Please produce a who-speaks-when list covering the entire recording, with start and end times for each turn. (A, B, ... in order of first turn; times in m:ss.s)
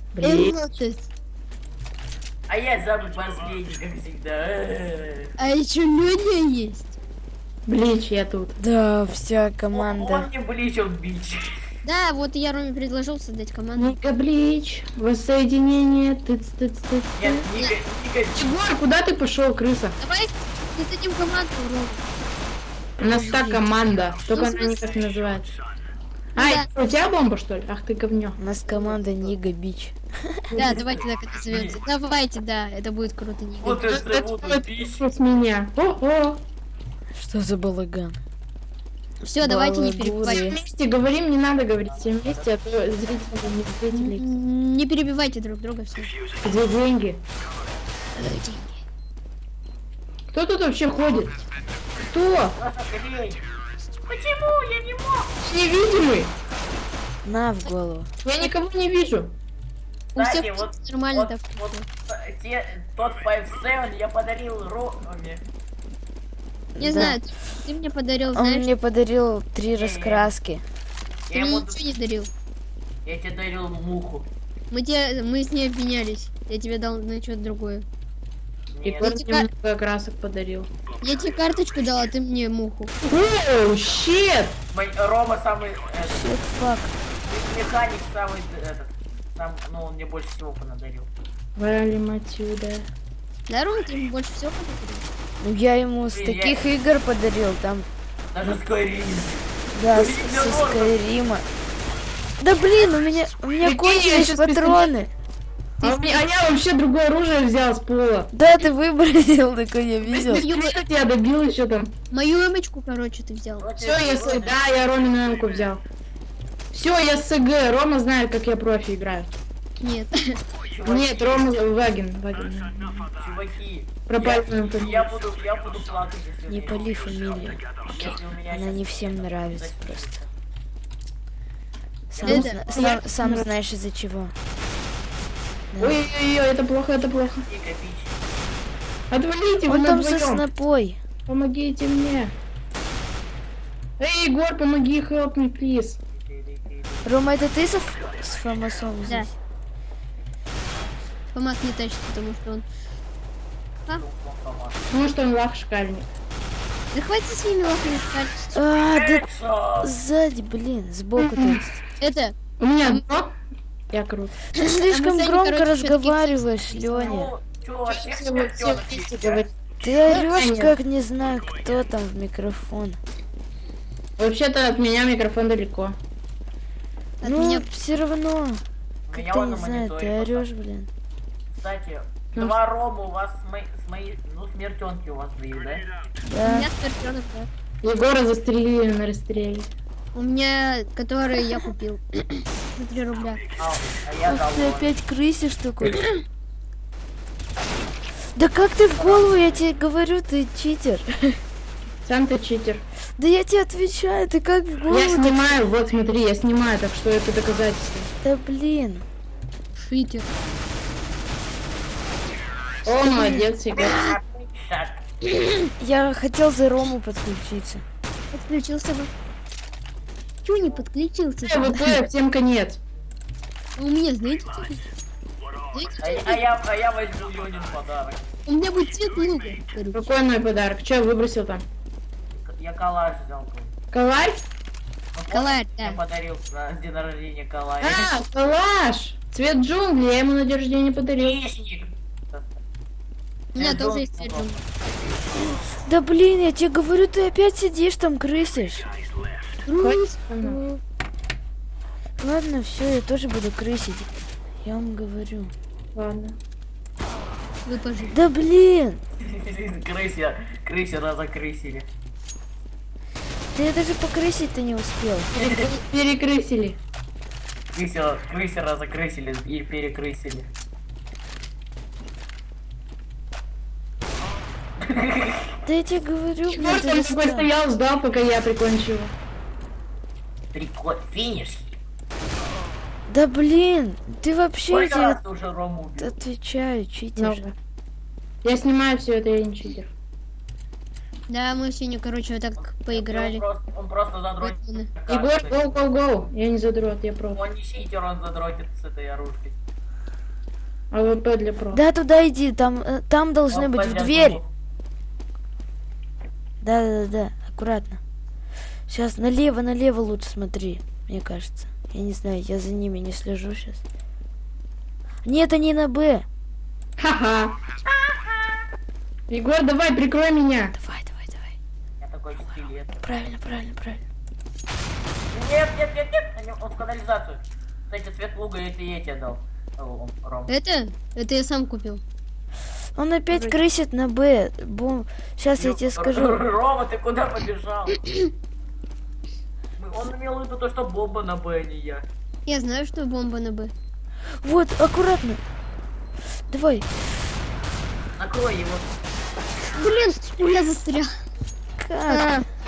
0:00.1-0:00.6 A
0:00.2-0:01.1 B
0:02.5-0:05.3 C
0:05.4-0:07.0 B
0:07.6-0:08.6 A
0:08.6-0:10.3 D
0:09.7-0:11.6 C
0:11.8-0:13.9 B
0:13.8-0:17.5 A
0:17.1-0:18.5 C
0:18.3-0:20.0 A
0:20.0-0:22.0 B
0:23.0-0:25.5 A
0:24.3-0:24.9 B
0:26.4-0:26.7 B
0:26.4-0:28.4 A
0:28.4-0:30.4 D
0:28.7-0:29.3 C
0:30.5-0:30.9 A
0:30.6-0:33.9 B
0:31.5-0:31.8 C
0:33.6-0:35.0 C
0:33.9-0:36.4 A
0:37.1-0:38.2 D
0:39.2-0:40.5 B
0:39.4-0:40.6 D
0:40.2-0:44.2 A
0:41.8-0:42.6 C
0:43.9-0:46.1 B
0:46.4-0:47.2 A
0:48.1-0:48.8 B
0:50.3-0:51.4 A
0:52.0-0:52.6 A
0:52.5-0:53.4 C
0:54.0-0:55.3 C
0:55.4-0:56.3 A
0:57.2-0:58.1 D
0:58.2-0:59.3 A
1:00.1-1:01.8 B
1:00.2-1:05.4 C
1:06.8-1:07.2 D
1:06.8-1:08.7 B
1:08.3-1:10.6 D
1:09.7-1:10.3 C
1:11.3-1:11.8 C
1:11.3-1:12.3 B
1:13.0-1:14.3 C
1:14.7-1:17.8 B
1:18.7-1:19.1 C
1:18.8-1:20.7 A
1:19.0-1:19.5 B
1:21.0-1:22.9 B
1:23.0-1:24.6 A
1:24.7-1:26.3 C
1:26.0-1:26.9 D
1:27.2-1:31.1 C
1:31.6-1:32.8 A
1:33.5-1:35.0 B
1:35.4-1:37.9 D
1:36.1-1:36.6 C
1:38.3-1:41.0 C
1:39.7-1:41.4 D
1:42.4-1:45.1 D
1:43.6-1:44.9 A
1:45.8-1:46.2 B
1:45.8-1:48.3 A
1:48.3-1:50.4 D
1:50.0-1:51.9 A
1:50.3-1:50.8 B
1:52.1-1:53.7 B
1:53.6-1:54.6 C
1:53.8-1:55.8 A
1:56.7-1:59.3 A
1:59.8-2:00.4 B
2:00.7-2:01.5 C
2:00.8-2:03.1 A
2:03.1-2:07.2 C
2:04.1-2:05.1 A
2:06.5-2:10.2 D
2:07.7-2:10.3 C
2:12.1-2:14.3 D
2:12.2-2:13.5 A
2:12.2-2:12.6 B
2:15.8-2:17.4 A
2:17.1-2:18.2 C
2:19.1-2:20.4 A
2:19.7-2:21.0 D
2:21.3-2:22.3 A
2:24.0-2:26.0 A
2:26.1-2:27.2 C
2:27.0-2:29.3 D
2:31.3-2:32.6 B
2:33.9-2:34.9 C
2:34.9-2:36.0 A
2:36.9-2:38.6 B
2:38.5-2:39.2 D
2:38.8-2:40.0 C
2:39.8-2:41.8 D
2:41.2-2:41.6 A
2:42.0-2:42.3 B
2:42.6-2:43.3 A
2:43.9-2:44.4 A
2:44.6-2:47.2 B
2:44.6-2:47.3 D
2:46.9-2:49.5 C
2:47.9-2:50.7 A
2:49.8-2:53.0 D
2:54.2-2:56.0 A
2:57.2-2:57.7 B
2:57.2-2:58.6 D
2:59.1-3:00.5 C
2:59.1-3:00.9 D
3:01.5-3:05.9 C
3:06.2-3:06.7 D
3:06.4-3:07.5 B
3:07.8-3:09.7 A
3:10.1-3:13.4 B
3:13.6-3:14.9 C
3:14.2-3:16.0 D
3:15.8-3:16.2 B
3:18.3-3:21.4 D
3:18.9-3:19.6 C
3:22.0-3:22.8 A
3:23.2-3:25.6 D
3:24.9-3:28.1 A
3:28.2-3:29.0 D
3:29.8-3:30.3 B
3:32.8-3:34.0 A
3:33.1-3:33.4 D
3:33.7-3:35.0 C
3:35.4-3:35.7 B
3:35.8-3:37.8 D
3:38.3-3:39.1 B
3:40.4-3:42.0 B
3:41.4-3:42.8 A
3:43.8-3:44.8 B
3:45.7-3:46.4 B
3:46.0-3:48.2 C
3:48.4-3:50.1 B
3:49.9-3:51.6 A
3:52.3-3:53.7 C
3:53.9-3:54.4 A
3:55.1-3:58.1 C
3:55.3-3:56.0 B
3:57.8-4:01.4 A
4:01.2-4:02.6 C
4:03.5-4:04.6 B
4:03.6-4:04.6 C
4:05.7-4:08.9 D
4:09.6-4:10.8 B
4:09.7-4:10.6 A
4:12.2-4:14.1 D
4:14.6-4:15.5 D
4:15.9-4:16.4 A
4:17.6-4:18.2 B
4:18.1-4:19.0 D
4:19.2-4:21.9 C
4:23.5-4:25.5 D
4:25.4-4:25.6 C
4:25.4-4:26.8 A
4:27.7-4:30.5 C
4:34.8-4:35.5 C
4:35.6-4:37.5 D
4:36.5-4:39.1 A
4:40.5-4:41.7 C
4:43.1-4:45.2 D
4:44.7-4:46.1 C
4:46.0-4:47.4 D
4:47.2-4:47.5 A
4:48.4-4:49.9 A
4:51.3-4:53.4 B
4:52.6-4:55.8 C
4:54.4-4:54.9 B
4:55.1-4:57.4 A
4:57.3-4:59.6 C
5:00.9-5:01.8 A
5:01.7-5:04.4 D
5:03.5-5:04.5 C
5:06.6-5:08.0 D
5:08.9-5:13.8 D
5:15.2-5:16.2 D
5:17.0-5:17.6 A
5:19.3-5:20.7 A
5:20.8-5:21.5 D
5:22.0-5:22.9 C
5:23.0-5:24.0 D
5:25.3-5:30.5 C
5:30.5-5:32.0 B
5:33.0-5:36.4 D
5:35.6-5:38.0 C
5:39.8-5:42.0 C
5:42.4-5:43.7 B
5:44.4-5:45.4 D
5:46.5-5:46.9 D
5:48.2-5:48.9 C
5:49.7-5:51.1 B
5:51.8-5:52.4 D
5:52.1-5:52.4 B